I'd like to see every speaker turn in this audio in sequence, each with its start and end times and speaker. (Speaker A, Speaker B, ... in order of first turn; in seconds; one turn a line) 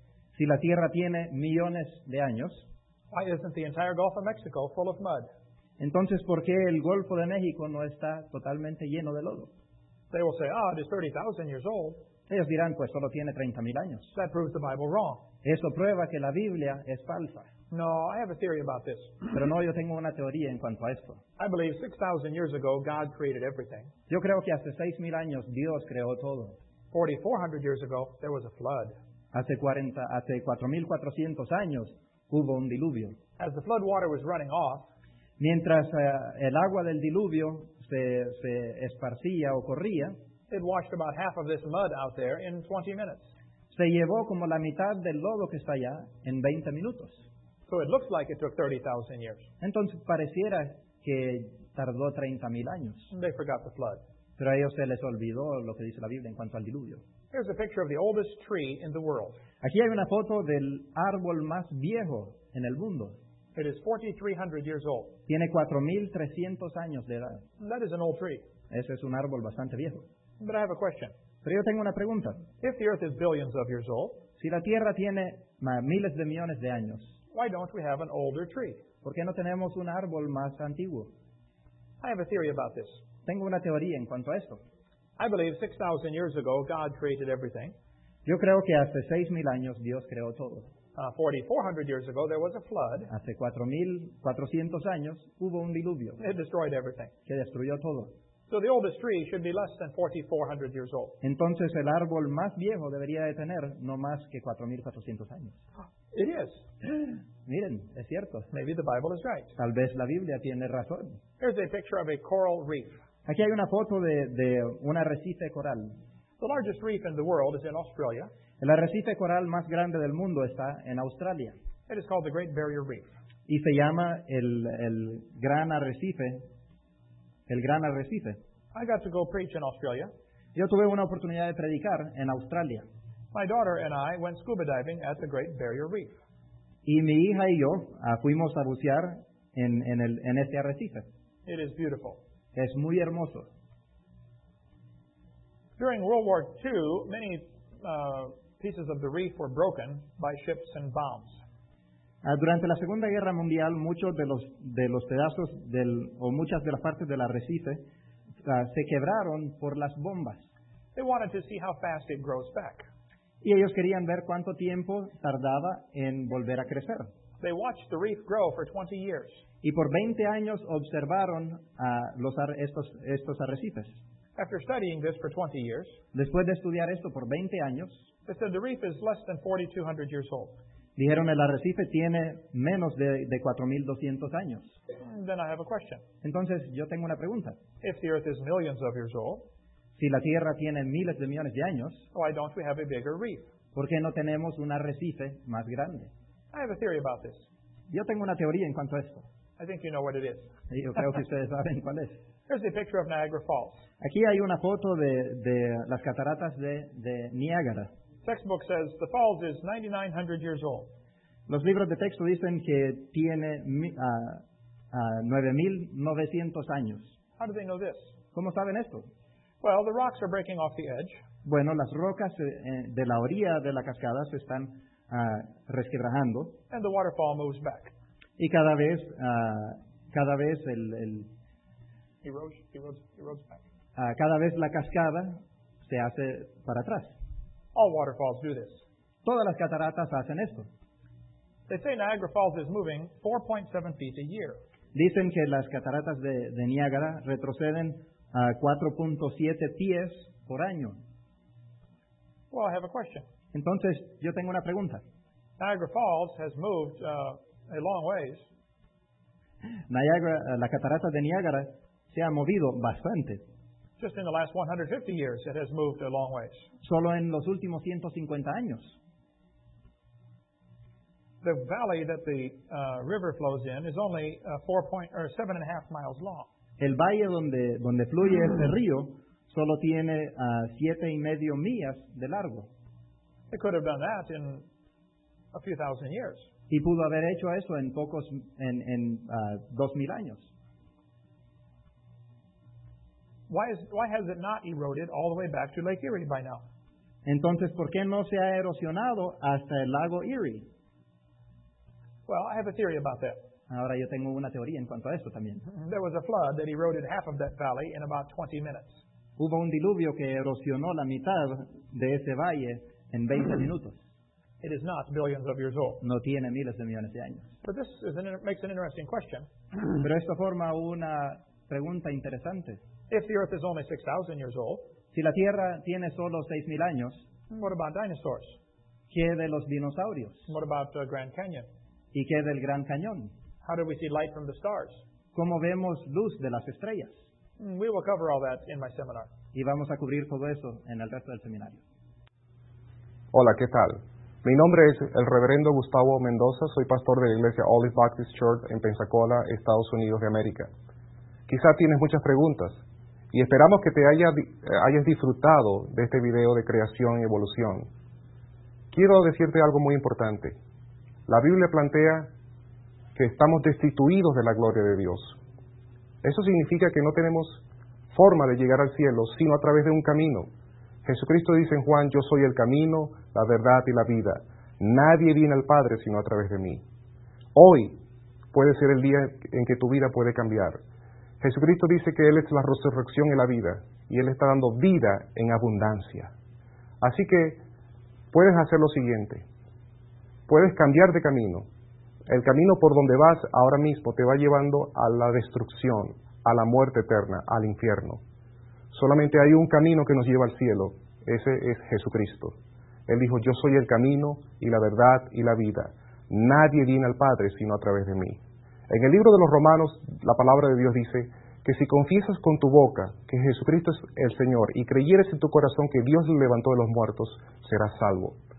Speaker A: 0.3-2.6
Speaker B: 3.1-5.3
Speaker A: 5.8-9.5
Speaker B: 10.1-12.0
Speaker A: 12.3-14.1
Speaker B: 14.1-15.2
Speaker A: 15.4-17.5
Speaker B: 17.7-19.1
Speaker A: 19.3-21.2
Speaker B: 21.4-23.9
Speaker A: 24.1-26.6
Speaker B: 26.9-28.9
Speaker A: 29.3-33.2
Speaker B: 33.4-34.9
Speaker A: 35.4-40.1
Speaker B: 40.5-43.3
Speaker A: 43.7-47.2
Speaker B: 47.7-49.5
Speaker A: 49.6-53.1
Speaker B: 53.1-54.0
Speaker A: 54.4-57.0
Speaker B: 57.3-59.4
Speaker A: 59.6-63.1
Speaker B: 63.5-65.2
Speaker A: 65.3-67.4
Speaker B: 67.6-68.4
Speaker A: 68.7-70.0
Speaker B: 70.4-71.1
Speaker A: 71.4-72.4
Speaker B: 72.6-74.2
Speaker A: 74.4-77.1
Speaker B: 77.3-78.8
Speaker A: 79.0-81.1
Speaker B: 82.0-83.0
Speaker A: 83.2-84.6
Speaker B: 85.2-87.7
Speaker A: 88.2-90.7
Speaker B: 90.9-93.1
Speaker A: 93.1-96.2
Speaker B: 96.2-97.1
Speaker A: 97.2-98.1
Speaker B: 98.5-101.2
Speaker A: 101.2-105.6
Speaker B: 106.1-106.7
Speaker A: 107.5-108.5
Speaker B: 108.5-109.5
Speaker A: 109.6-111.2
Speaker B: 111.4-113.0
Speaker A: 113.2-115.9
Speaker B: 116.4-118.3
Speaker A: 118.6-121.5
Speaker B: 121.9-123.1
Speaker A: 123.5-126.4
Speaker A: 127.5-128.4
Speaker B: 128.7-130.1
Speaker A: 130.5-132.8
Speaker B: 133.3-136.2
Speaker A: 136.8-141.1
Speaker B: 141.4-142.2
Speaker A: 142.5-143.5
Speaker B: 145.8-151.4
Speaker A: 152.2-157.8
Speaker A: 158.4-160.5
Speaker B: 160.9-162.9
Speaker A: 163.4-167.1
Speaker B: 167.4-169.4
Speaker A: 169.6-173.9
Speaker B: 174.3-175.9
Speaker A: 176.1-178.0
Speaker B: 178.2-180.6
Speaker A: 180.9-184.8
Speaker B: 185.0-186.0
Speaker A: 186.2-187.6
Speaker B: 187.8-189.4
Speaker A: 189.9-192.1
Speaker B: 192.1-193.5
Speaker A: 193.7-196.1
Speaker B: 196.5-197.5
Speaker A: 197.9-199.2
Speaker B: 199.6-200.5
Speaker A: 200.7-202.2
Speaker B: 202.5-203.8
Speaker A: 204.0-207.9
Speaker B: 208.2-210.9
Speaker A: 211.5-217.1
Speaker B: 217.4-218.1
Speaker A: 218.3-219.1
Speaker B: 219.6-221.2
Speaker A: 221.4-226.5
Speaker B: 226.7-227.9
Speaker A: 228.4-231.3
Speaker B: 232.2-233.6
Speaker A: 233.9-237.1
Speaker B: 237.7-238.8
Speaker A: 239.2-240.7
Speaker B: 241.7-244.6
Speaker A: 244.9-251.0
Speaker B: 252.5-253.2
Speaker A: 253.5-255.0
Speaker B: 255.6-258.5
Speaker A: 259.9-263.4
Speaker B: 264.0-266.6
Speaker A: 266.8-268.9
Speaker B: 271.4-276.5
Speaker A: 276.8-282.7
Speaker B: 283.5-284.6
Speaker B: 285.5-286.4
Speaker A: 286.7-290.5
Speaker B: 293.5-296.6
Speaker A: 297.2-300.7
Speaker B: 302.3-303.4
Speaker A: 303.7-305.6
Speaker B: 305.6-308.9
Speaker A: 309.4-314.0
Speaker B: 314.6-316.0
Speaker A: 316.0-317.5
Speaker B: 317.6-319.5
Speaker A: 320.0-322.8
Speaker B: 323.1-324.8
Speaker A: 325.1-327.2
Speaker B: 327.5-328.6
Speaker A: 329.1-330.5
Speaker B: 330.5-331.7
Speaker A: 332.1-333.3
Speaker B: 333.6-335.0
Speaker A: 335.3-337.1
Speaker B: 337.6-339.3
Speaker A: 339.5-341.8
Speaker C: 343.3-350.7
Speaker C: 351.5-352.8
Speaker C: 353.3-357.9
Speaker C: 358.9-360.6
Speaker C: 361.3-362.3
Speaker C: 363.1-365.4
Speaker C: 366.2-370.5
Speaker C: 371.0-376.8
Speaker C: 377.5-378.0
Speaker C: 378.5-380.8
Speaker C: 381.4-386.3
Speaker C: 387.0-387.6
Speaker C: 388.3-389.4
Speaker C: 390.5-391.6
Speaker C: 392.3-398.2
Speaker C: 398.9-402.5
Speaker C: 403.1-418.4